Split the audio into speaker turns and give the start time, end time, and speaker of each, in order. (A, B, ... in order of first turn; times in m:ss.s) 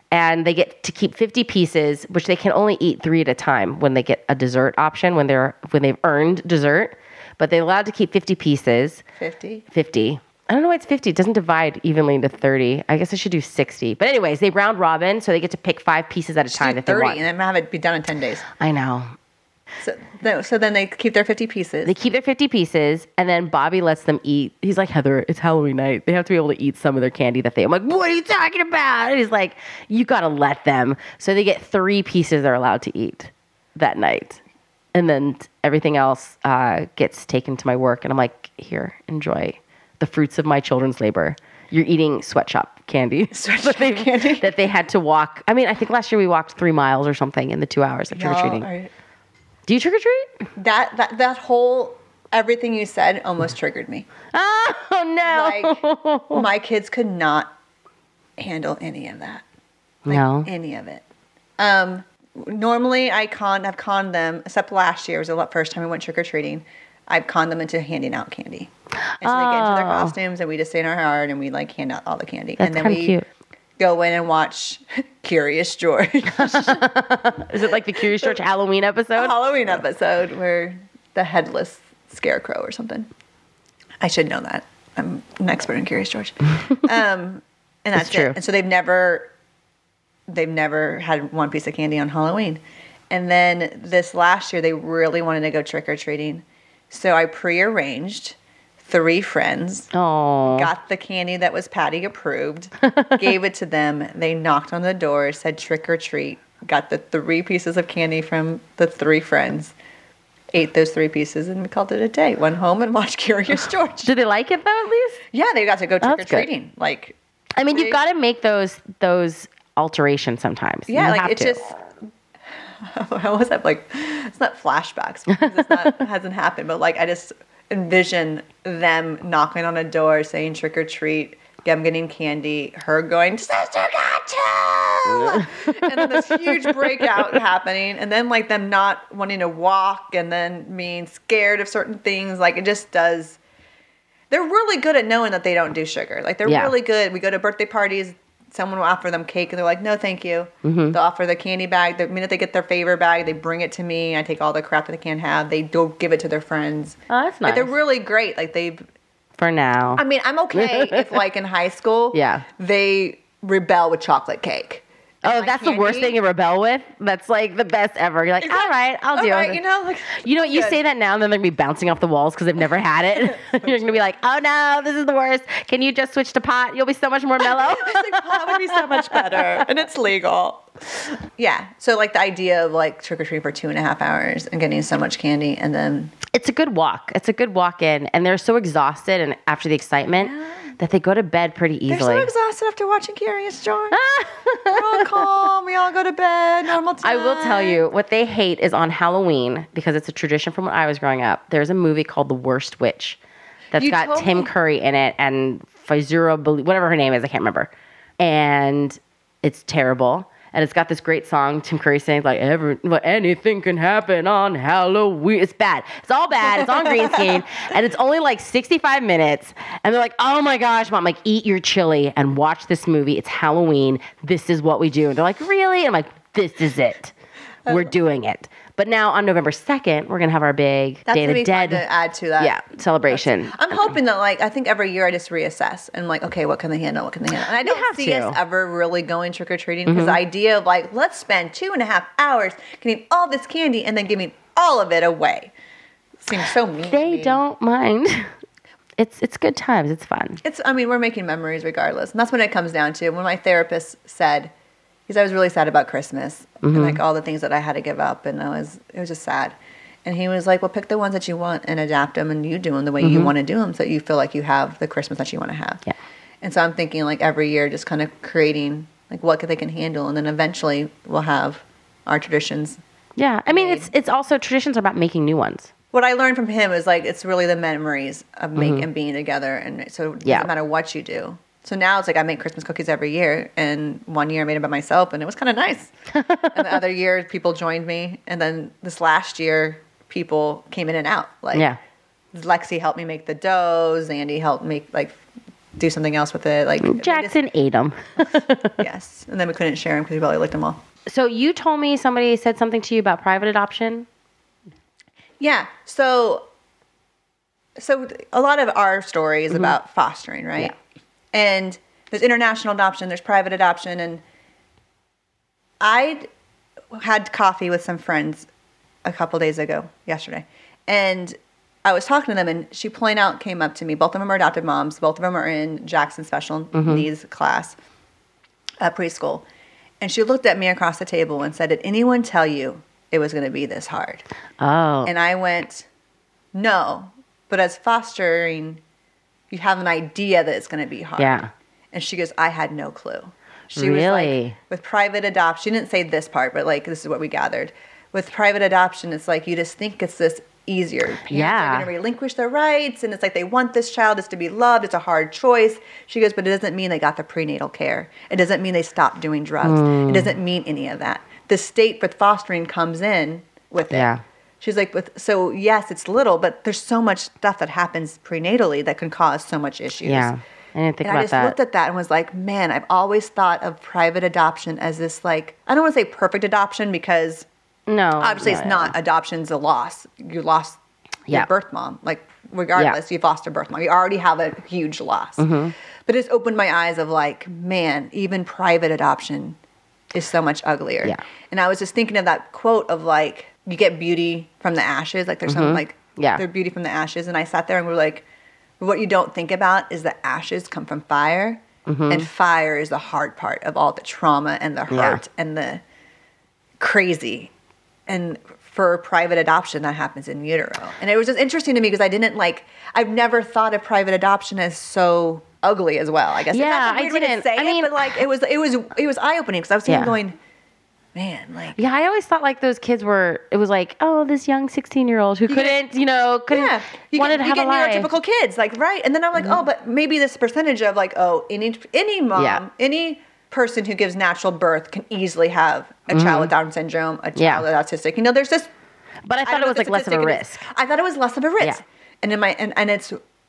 0:00.1-0:09.0 A
0:09.2-0:09.6 B
0:09.7-0:17.2 A
0:16.5-0:18.5 B
0:18.6-0:19.1 A
0:19.8-0:21.9 B
0:21.8-0:34.4 A
0:34.9-0:48.7 A
0:43.3-0:44.5 B
0:48.1-0:48.9 B
0:49.7-0:50.3 A
0:50.6-0:54.1 B
0:54.3-0:56.4 A
0:55.2-0:55.8 B
0:56.3-0:57.5 B
0:58.4-0:59.4 B
1:00.0-1:00.5 A
1:00.1-1:01.0 B
1:01.6-1:08.7 B
1:09.2-1:10.1 A
1:09.2-1:13.2 B
1:12.6-1:13.2 A
1:13.8-1:16.8 B
1:16.3-1:19.3 A
1:17.7-1:18.4 B
1:19.1-1:23.1 B
1:24.0-1:29.3 B
1:28.0-1:28.4 A
1:30.3-1:39.9 B
1:39.9-1:40.7 A
1:40.5-1:49.7 B
1:42.8-1:43.2 A
1:50.5-1:54.1 B
1:54.0-1:55.2 A
1:55.3-1:57.2 B
1:56.0-1:56.5 A
1:57.6-2:01.7 A
1:57.7-1:58.0 B
2:00.9-2:01.7 B
2:02.8-2:23.4 B
2:05.3-2:05.7 A
2:15.1-2:17.1 A
2:24.3-2:38.8 B
2:26.4-2:26.7 A
2:30.6-2:31.0 A
2:37.1-2:37.7 A
2:39.4-2:41.2 A
2:40.0-2:46.1 B
2:42.1-2:42.4 A
2:45.2-2:49.6 A
2:48.4-2:50.8 B
2:50.2-2:59.5 A
2:53.3-2:53.9 B
2:57.4-3:06.1 B
3:06.3-3:12.3 A
3:10.2-3:10.6 B
3:11.9-3:14.0 B
3:13.9-3:15.3 A
3:14.7-3:17.8 B
3:17.0-3:23.2 A
3:23.7-3:24.5 B
3:23.7-3:47.1 A
3:36.5-3:37.4 B
3:47.6-3:47.9 B
3:47.7-3:51.8 A
3:51.1-3:52.6 B
3:52.4-3:53.7 A
3:53.1-4:05.5 B
3:57.6-3:58.4 A
3:59.9-4:00.2 A
4:06.2-4:07.4 B
4:06.8-4:08.3 A
4:09.0-4:10.4 A
4:10.4-4:14.5 B
4:15.1-4:25.8 B
4:16.6-4:17.0 A
4:23.0-4:23.3 A
4:26.4-4:32.8 B
4:33.2-4:35.7 A
4:33.4-4:33.9 B
4:35.9-4:45.9 B
4:38.6-4:38.8 A
4:40.2-4:40.5 A
4:46.1-4:46.5 A
4:46.5-4:51.6 B
4:52.3-4:55.2 B
4:55.8-4:57.4 B
4:56.8-4:58.8 A
4:58.2-5:00.8 B
5:01.1-5:04.1 A
5:05.4-5:06.4 B
5:07.8-5:10.7 B
5:11.3-5:14.2 B
5:15.8-5:16.3 B
5:16.9-5:18.5 B
5:19.0-5:27.8 B
5:26.7-5:27.1 A
5:28.8-5:29.4 B
5:30.0-5:34.2 B
5:34.6-5:35.1 A
5:35.0-5:35.9 B
5:36.5-5:38.8 B
5:39.5-6:04.1 B
5:41.2-5:41.5 A
5:43.7-5:44.6 A
5:51.3-5:51.9 A
5:59.6-6:00.3 A
6:03.9-6:04.2 A
6:04.6-6:10.3 B
6:10.0-6:11.6 A
6:11.0-6:17.5 B
6:17.9-6:18.9 A
6:18.2-6:20.8 B
6:21.3-6:25.5 B
6:25.4-6:25.7 A
6:26.0-6:29.6 B
6:30.1-6:38.2 B
6:35.5-6:36.4 A
6:38.8-6:45.8 B
6:41.9-6:42.3 A
6:44.9-6:45.2 A
6:46.8-6:47.5 B
6:48.1-7:00.4 B
6:56.5-6:58.1 A
6:59.9-7:00.2 A
7:01.1-7:01.8 B
7:01.8-7:08.1 A
7:05.5-7:05.8 B
7:06.5-7:18.7 B
7:12.3-7:12.6 A
7:16.1-7:16.5 A
7:17.4-7:17.6 A
7:19.3-7:20.6 A
7:19.4-7:23.2 B